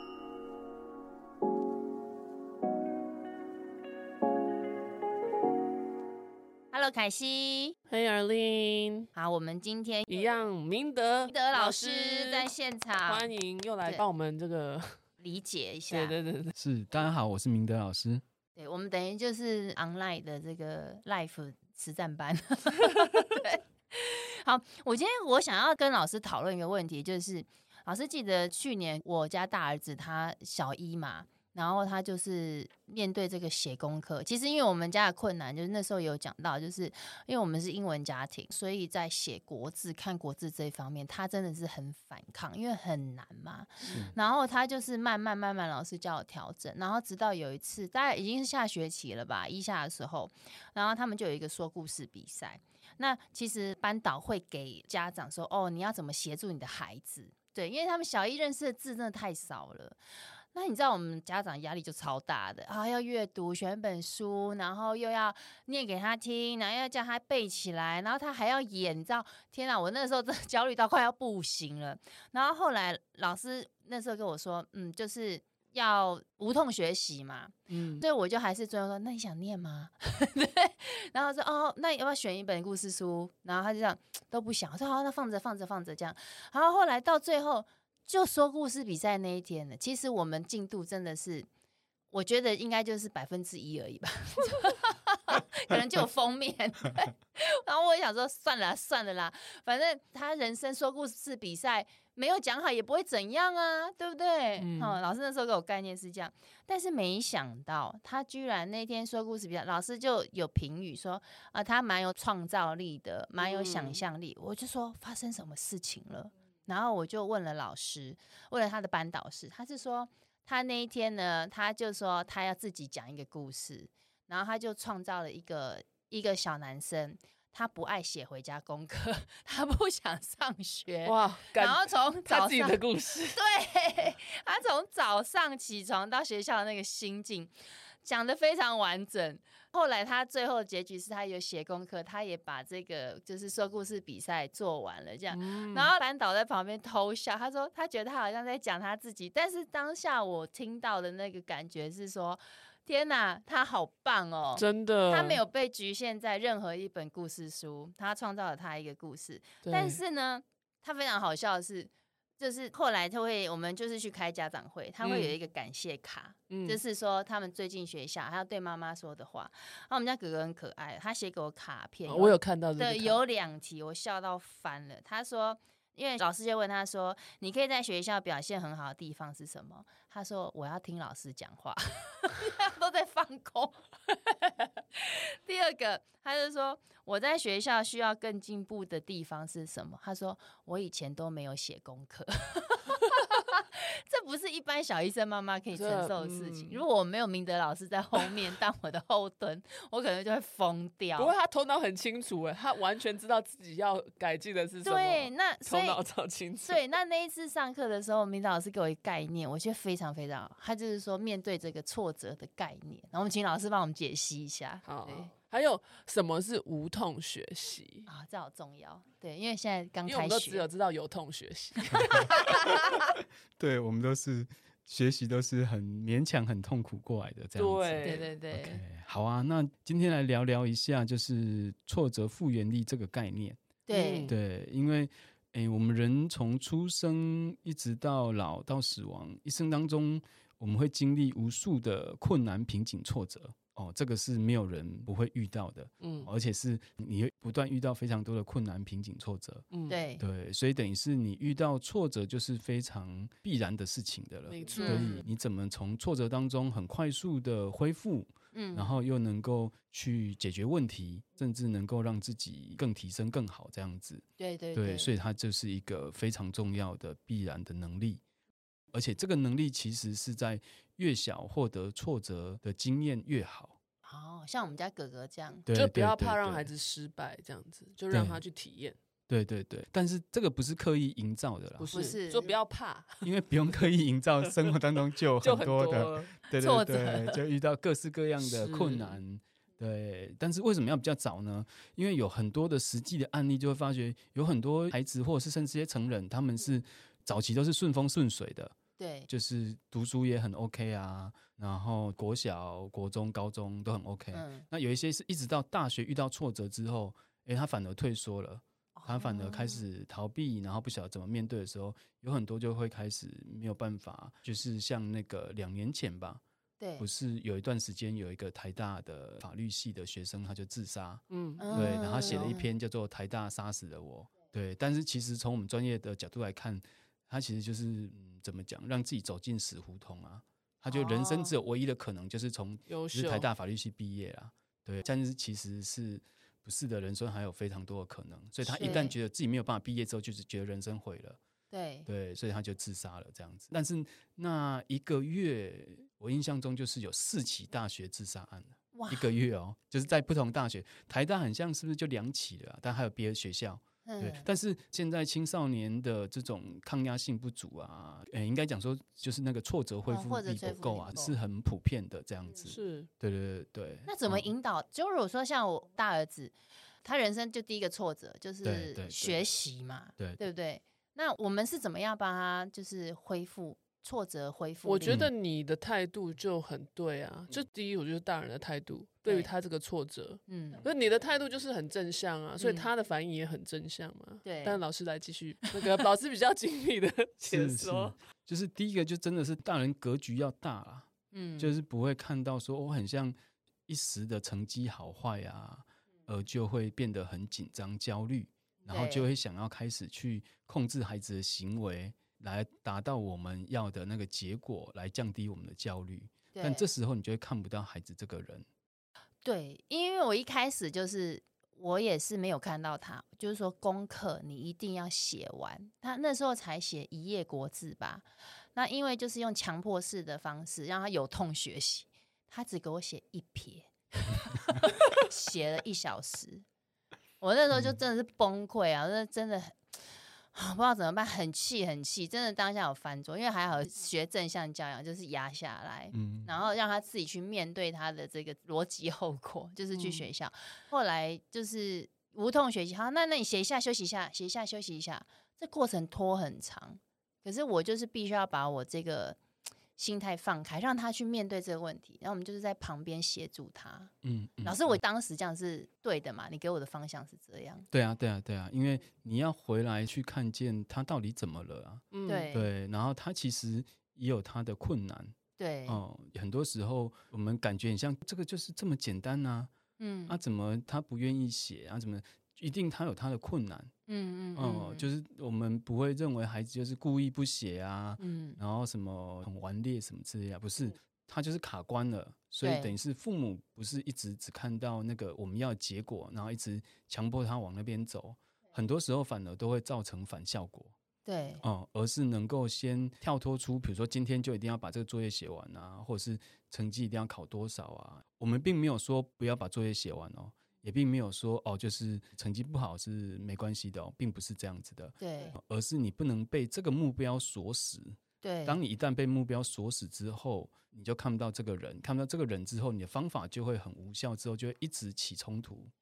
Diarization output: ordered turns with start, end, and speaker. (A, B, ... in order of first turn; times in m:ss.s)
0:06.7-0:07.8 A
0:07.9-0:09.1 B
0:09.1-0:10.2 A
0:10.1-0:12.5 B
0:11.3-0:13.3 A
0:13.0-0:15.0 B
0:15.2-0:16.2 A
0:15.9-0:16.5 B
0:16.6-0:18.2 C
0:18.6-1:00.0 A
0:43.8-0:44.1 B
1:00.5-1:31.5 A
1:17.7-1:18.0 B
1:32.1-2:17.5 A
1:44.6-1:45.0 B
1:53.4-1:54.0 B
2:11.0-2:13.4 B
2:18.0-3:21.3 A
2:25.3-2:25.9 B
2:34.5-2:35.4 B
2:39.6-2:40.0 B
2:45.0-2:45.4 B
2:46.5-2:46.8 B
2:52.1-2:53.2 B
3:15.7-3:16.8 B
3:21.2-3:26.8 B
3:24.8-3:26.0 A
3:26.6-3:35.3 A
3:34.8-3:38.1 B
3:38.1-3:40.6 A
3:40.0-3:42.6 B
3:42.0-3:43.0 A
3:43.6-3:53.6 C
3:47.6-3:48.3 B
3:48.0-3:48.8 A
3:53.9-3:54.3 A
3:53.9-3:54.4 B
3:54.3-4:09.6 C
4:06.0-4:06.3 B
4:09.7-4:10.0 B
4:09.9-4:10.2 A
4:10.2-4:24.2 C
4:14.5-4:15.3 B
4:14.8-4:15.2 A
4:18.5-4:19.0 A
4:24.4-4:25.1 A
4:24.7-4:28.2 C
4:28.9-4:33.8 C
4:34.0-4:35.7 A
4:35.7-4:36.7 C
4:35.7-4:39.0 B
4:38.1-4:38.4 C
4:39.3-4:41.9 C
4:41.8-4:43.3 B
4:41.9-4:42.5 A
4:43.2-4:58.7 C
4:45.4-4:46.3 B
4:46.6-4:47.4 A
4:48.4-4:49.2 B
4:59.0-4:59.3 A
4:59.3-5:16.4 C
5:04.3-5:04.7 A
5:09.0-5:09.8 A
5:16.8-5:17.0 A
5:17.0-5:41.4 C
5:21.3-5:22.5 B
5:21.6-5:22.7 A
5:30.9-5:31.6 A
5:32.9-5:33.5 B
5:38.6-5:39.1 A
5:41.7-5:42.1 A
5:42.1-6:04.5 C
5:48.9-5:49.3 A
5:54.0-5:54.5 A
6:00.1-6:01.3 A
6:02.6-6:03.1 B
6:04.0-6:15.2 A
6:08.6-6:09.5 C
6:14.8-6:28.2 B
6:15.0-6:15.3 C
6:20.5-6:20.8 A
6:22.6-6:22.9 A
6:24.4-6:24.8 A
6:27.4-6:33.3 C
6:31.3-6:31.7 A
6:33.9-6:48.6 C
6:38.9-6:39.3 A
6:46.5-6:46.8 A
6:49.4-7:06.6 A
7:07.4-7:09.8 A
7:10.5-7:29.4 A
7:16.1-7:16.5 C
7:19.9-7:20.3 B
7:30.0-7:34.1 A
7:34.2-7:35.0 C
7:34.6-7:37.8 A
7:37.9-7:45.3 C
7:42.1-7:42.5 B
7:42.3-7:42.7 A
7:45.6-7:46.0 A
7:45.9-7:49.7 C
7:50.0-7:50.4 A
7:50.3-7:53.9 C
7:54.1-7:55.1 A
7:54.6-8:10.9 C
7:58.2-7:58.6 A
8:02.6-8:03.0 A
8:11.2-8:11.6 A
8:11.6-8:35.9 C
8:25.2-8:25.6 A
8:28.4-8:28.8 A